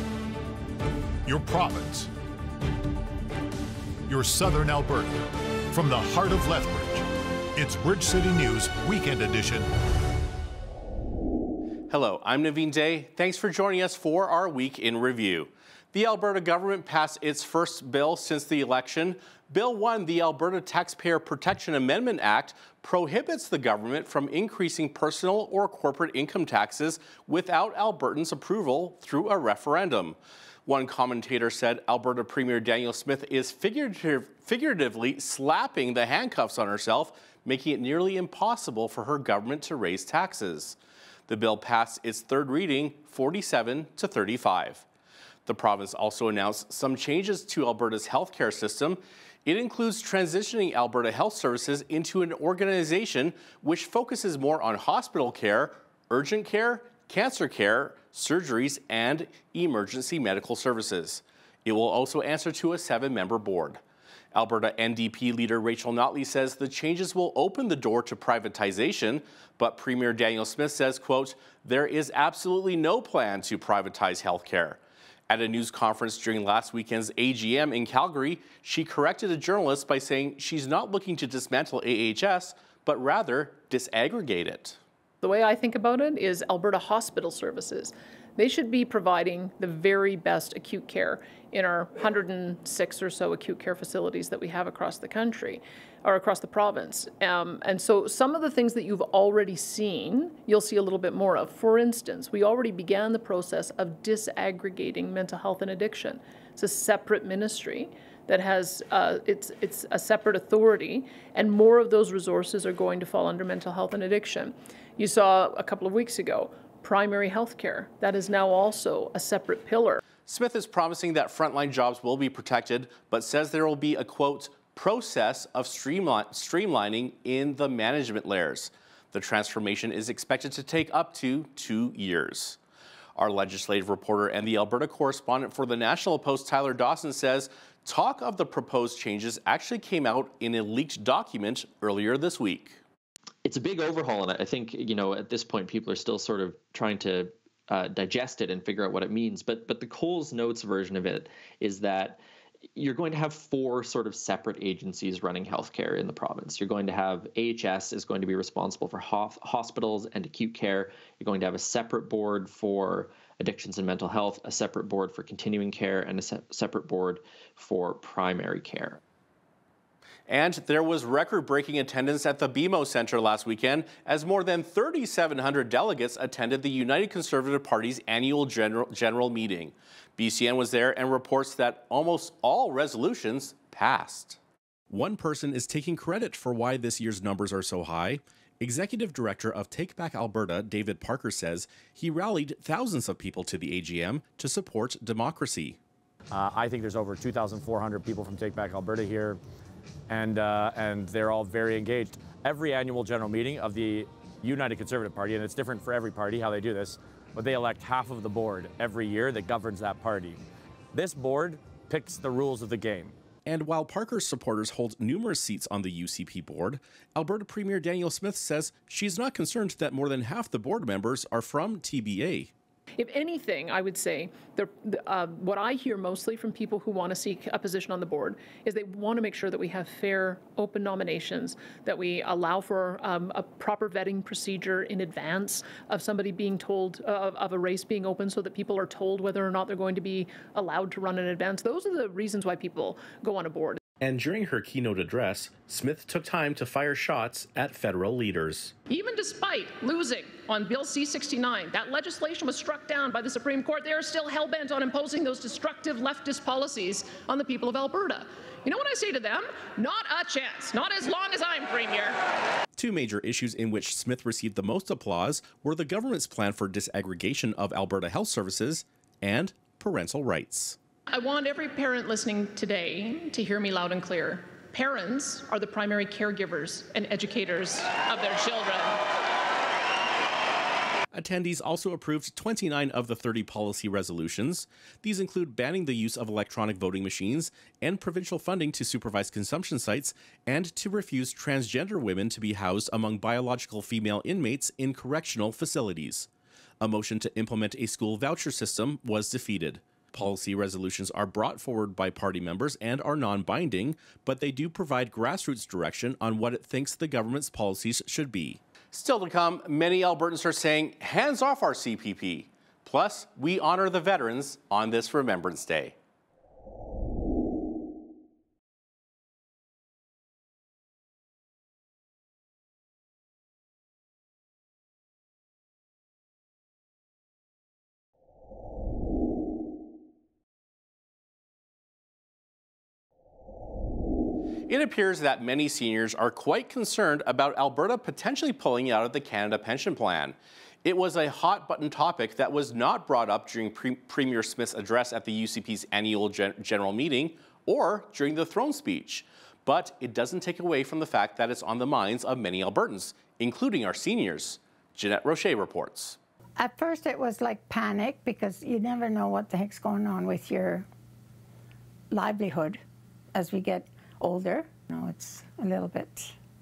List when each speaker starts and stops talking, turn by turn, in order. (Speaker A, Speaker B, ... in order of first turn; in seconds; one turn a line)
Speaker A: 1.2-2.1
Speaker A: 4.1-9.7
Speaker B: 11.9-40.8
Speaker B: 41.3-44.8
Speaker B: 45.5-63.8
Speaker B: 64.3-84.8
Speaker C: 85.2-120.0
Speaker B: 120.2-132.6
Speaker B: 133.2-142.8
Speaker D: 143.4-152.2
Speaker D: 152.7-169.0
Speaker B: 170.3-184.4
Speaker B: 184.9-195.8
Speaker E: 196.3-199.4
Speaker E: 200.1-210.4
Speaker E: 210.9-213.1
Speaker B: 213.4-222.5
Speaker C: 223.0-243.8
Speaker B: 244.0-248.7
Speaker C: 248.9-262.2
Speaker B: 262.8-270.8
Speaker C: 271.1-279.1
Speaker B: 281.1-296.3
Speaker B: 296.8-315.9
Speaker B: 334.7-356.2
Speaker F: 356.6-360.9
Speaker F: 362.1-362.8
Speaker F: 363.3-366.3